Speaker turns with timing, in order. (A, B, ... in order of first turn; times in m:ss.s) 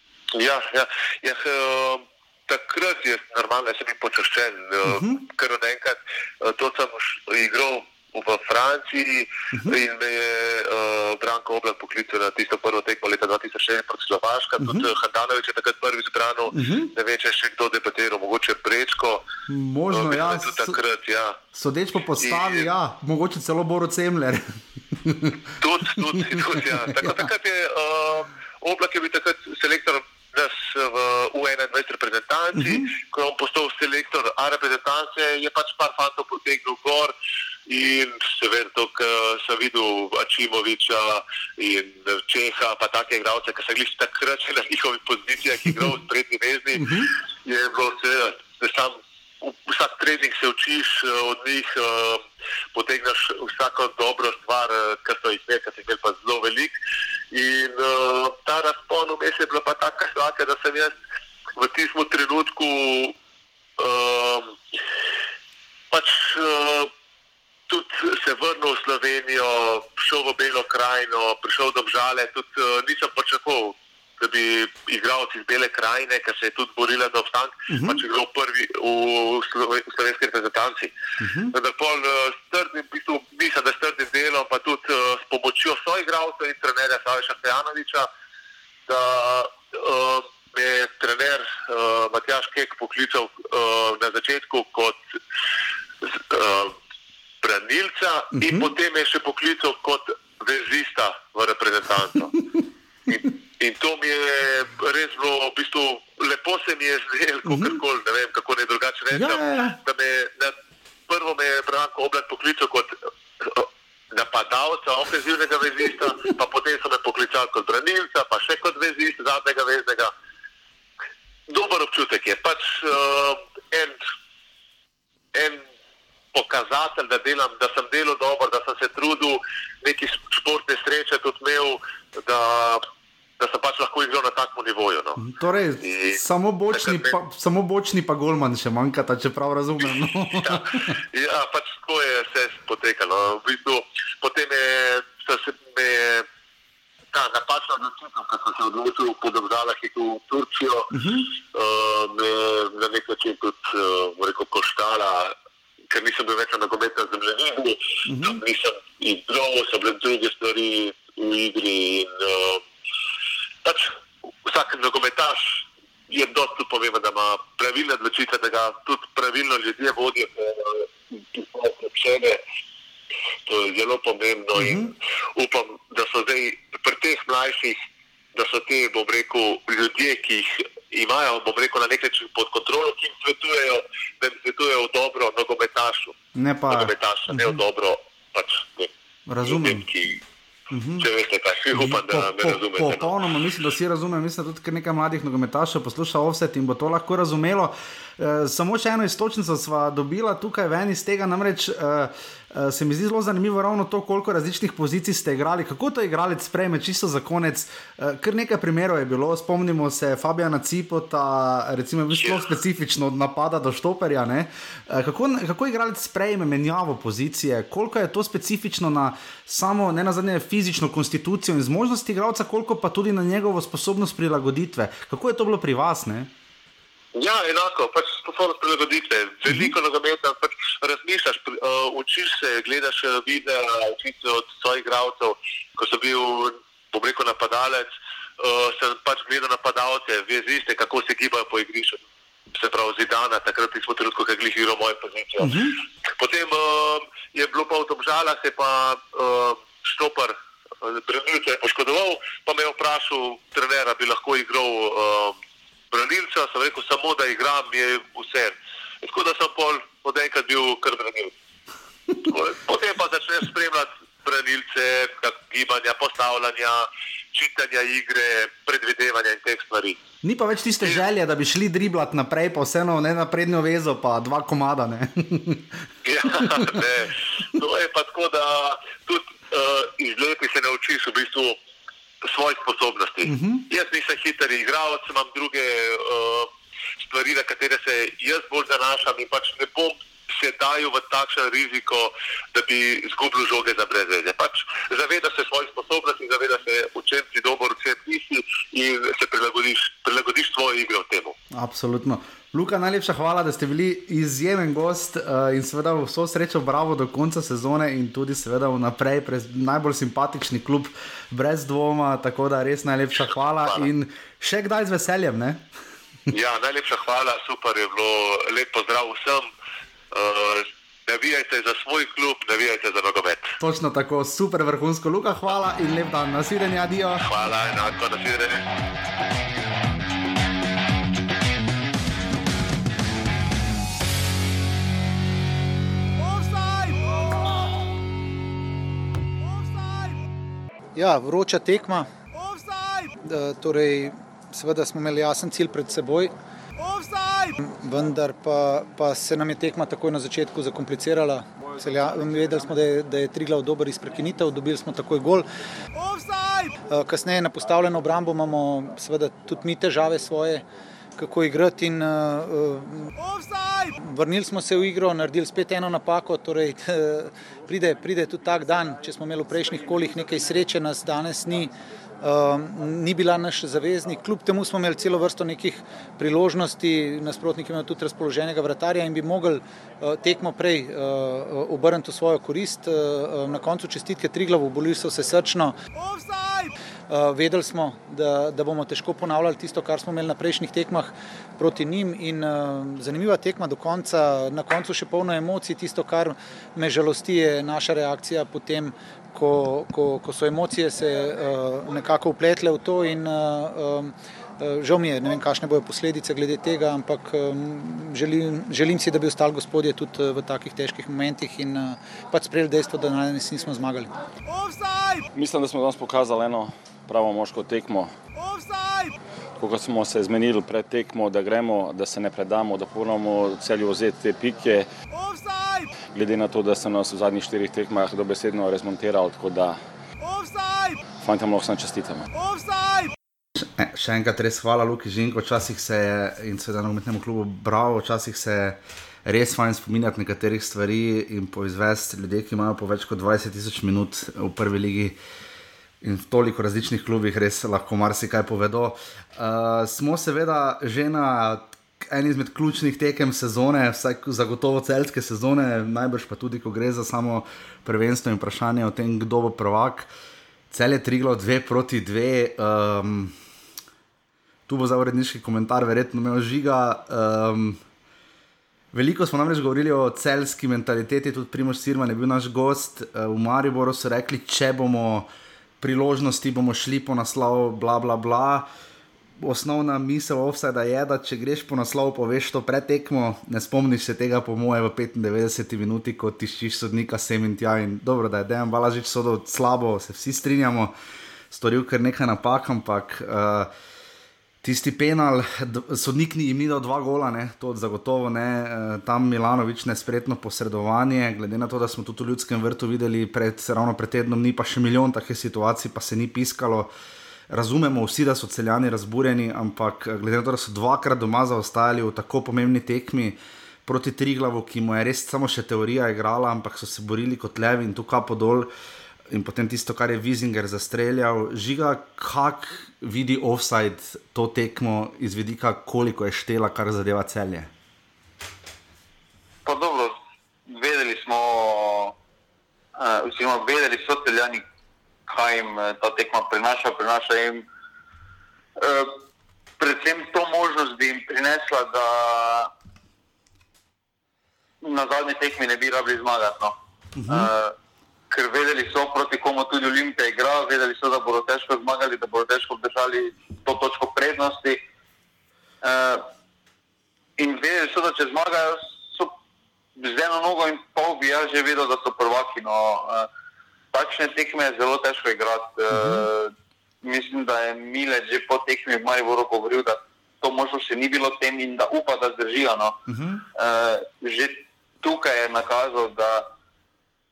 0:00.3-0:19.2 A
0:04.9-0:05.2 B
0:14.6-0:14.9 B
0:16.5-0:16.9 B
0:19.5-0:20.8 B
0:19.9-0:21.4 A
0:21.5-0:25.4 B
0:22.2-0:22.7 A
0:25.6-0:37.1 A
0:26.0-0:26.3 B
0:27.0-0:27.3 B
0:32.6-0:32.9 B
0:37.7-0:52.2 A
0:46.8-0:47.1 B
0:52.7-0:56.8 A
0:57.3-1:00.9 A
1:01.6-1:03.2 A
1:03.8-1:04.5 A
1:05.9-1:06.9 A
1:07.7-1:20.9 A
1:17.7-1:18.0 B
1:21.2-1:21.6 B
1:21.5-1:28.1 A
1:28.9-1:35.0 A
1:36.3-1:36.8 A
1:37.4-1:42.3 A
1:38.4-1:38.7 B
1:43.1-1:50.5 A
1:47.5-1:47.8 B
1:49.1-1:49.8 B
1:51.1-2:00.1 A
2:01.5-2:04.0 A
2:05.3-2:05.6 A
2:06.3-2:12.8 A
2:13.4-2:15.2 A
2:15.2-2:20.8 B
2:15.8-2:17.2 A
2:20.4-2:26.2 A
2:27.1-2:30.9 A
2:30.9-2:31.3 B
2:31.5-2:35.3 A
2:35.9-2:42.6 A
2:38.1-2:38.4 B
2:43.6-2:43.9 A
2:44.5-2:52.4 A
2:53.5-2:54.8 A
2:54.6-2:54.9 B
2:55.4-2:57.8 A
2:58.4-3:06.2 A
3:06.4-3:07.6 B
3:06.7-3:08.9 A
3:09.3-3:09.9 B
3:09.4-3:10.2 A
3:10.7-3:11.1 B
3:11.0-3:13.2 A
3:11.7-3:46.3 B
3:47.2-4:02.0 A
3:49.5-3:49.8 B
4:02.5-4:05.6 A
4:05.4-4:05.8 B
4:06.2-4:15.4 A
4:15.9-4:21.3 A
4:22.2-4:30.0 A
4:30.2-4:35.8 B
4:36.0-4:41.6 A
4:36.4-4:36.7 B
4:42.2-4:46.5 A
4:43.2-4:43.7 B
4:47.1-5:01.4 A
5:01.5-5:15.6 B
5:16.3-5:19.5 A
5:20.1-5:23.5 A
5:23.6-5:27.2 B
5:27.2-5:28.6 A
5:41.0-5:42.1 C
5:43.2-5:46.3 C
5:47.6-5:55.5 C
5:56.9-6:00.7 C
6:01.2-6:03.2 C
6:03.9-6:25.8 C
6:27.1-6:54.1 C
6:55.3-6:58.1 D
6:59.6-7:04.9 D
7:06.1-7:09.8 D
7:11.2-7:12.3 D
7:13.6-7:25.2 B
7:26.0-7:40.1 B
7:40.7-7:43.3 B
7:44.7-7:47.8 B
7:48.9-7:55.3 B
7:55.8-7:58.7 B
7:59.4-8:10.9 B
8:11.5-8:13.7 B
8:14.6-8:26.9 B
8:27.5-8:38.7 B
8:39.3-8:47.7 B
8:49.7-8:50.2 E
8:50.7-8:52.2 E
8:53.0-8:54.6 E
8:55.3-8:57.6 E
8:58.8-8:59.2 E
8:59.8-9:02.7 E
9:04.8-9:06.8 E
9:07.2-9:07.5 B
9:07.3-9:07.7 E
9:08.3-9:14.8 E
9:15.8-9:16.3 E
9:17.4-9:19.3 E
9:20.0-9:23.3 E
9:23.9-9:26.5 E
9:25.9-9:26.3 B
9:27.0-9:33.0 E
9:33.1-9:33.4 B
9:33.6-9:36.5 E